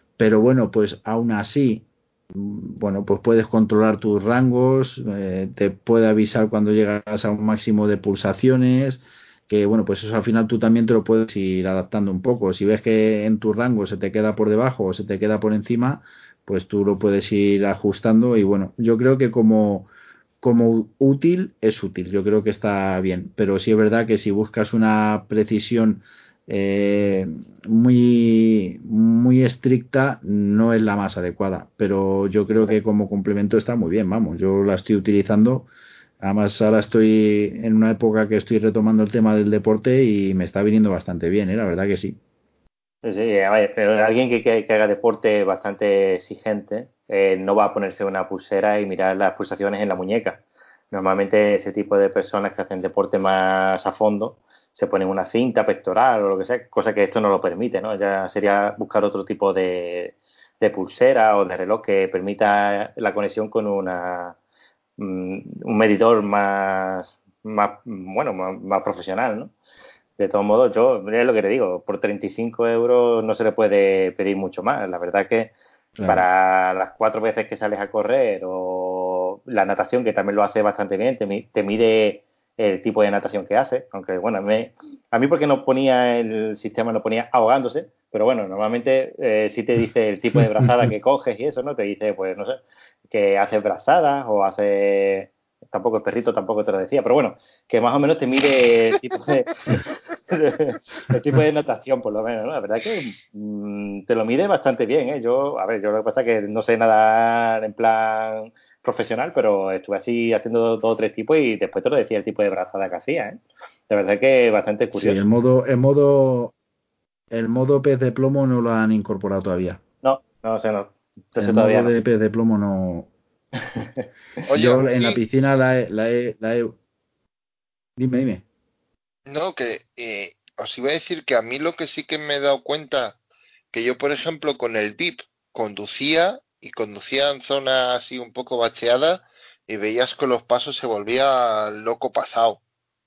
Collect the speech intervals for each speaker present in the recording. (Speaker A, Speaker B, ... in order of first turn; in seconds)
Speaker A: 0.2-19.9, 20.4-35.7, 36.2-42.2, 76.0-76.2, 114.9-116.5, 117.3-119.8, 121.4-123.1, 124.5-126.7, 128.0-128.4
Speaker B: 43.0-64.4, 65.0-69.5, 70.2-75.5, 76.0-113.4, 113.9-115.2, 120.0-121.9
Speaker C: 124.5-125.2, 129.3-133.2, 133.7-142.6